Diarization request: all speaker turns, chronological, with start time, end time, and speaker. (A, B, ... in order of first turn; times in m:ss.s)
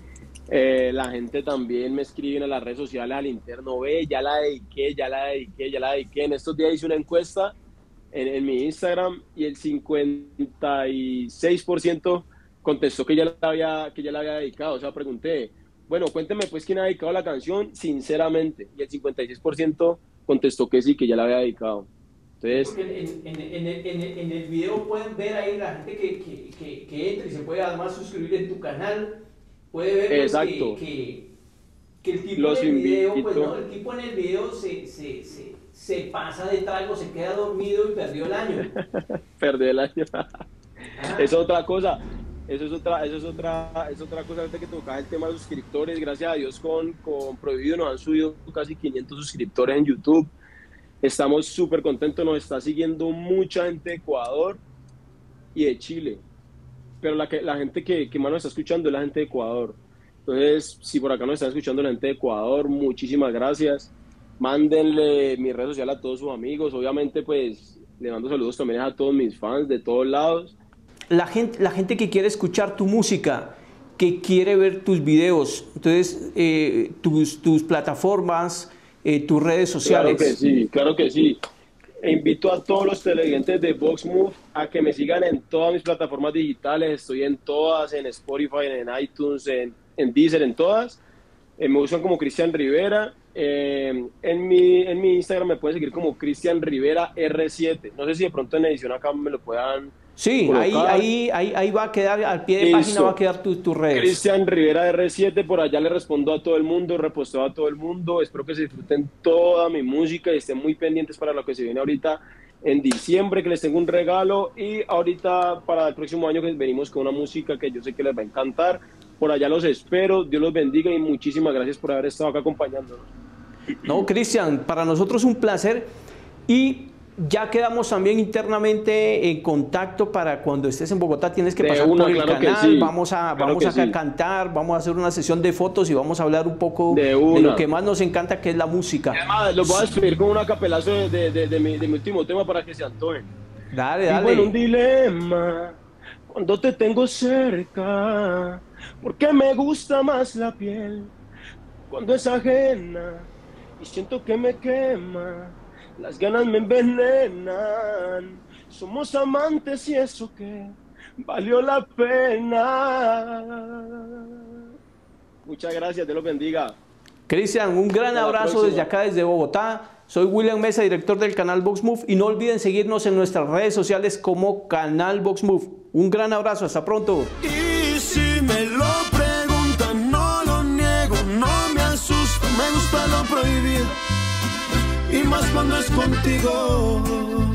0:00.5-0:07.6 A
0:08.1-0:21.9 A
0:22.4-0:22.8 A
0:22.5-0:29.1 B
0:29.7-0:31.3 B
0:30.1-0:30.8 A
0:32.0-0:38.6 B
0:32.4-0:33.5 A
0:38.7-0:40.2 A
0:41.0-0:41.3 B
0:41.2-0:50.3 A
0:51.0-0:54.6 A
0:55.5-0:56.2 A
0:57.0-1:10.6 A
1:11.1-1:20.4 B
1:19.8-1:21.4 A
1:22.0-1:31.0 A
1:31.6-1:39.9 A
1:40.2-1:44.2 B
1:40.4-1:41.0 A
1:42.6-1:43.2 A
1:43.9-2:03.1 A
2:03.8-2:05.9 B
2:06.5-2:19.9 B
2:11.6-2:14.0 A
2:16.9-2:17.6 A
2:19.1-2:23.3 A
2:23.7-2:24.5 B
2:24.1-2:31.1 A
2:31.9-2:44.4 A
2:45.4-2:46.8 A
2:47.3-2:57.3 B
2:48.1-2:48.9 A
2:57.5-3:03.8 A
2:57.7-3:03.5 C
3:05.1-3:07.3 C
3:05.1-3:06.3 A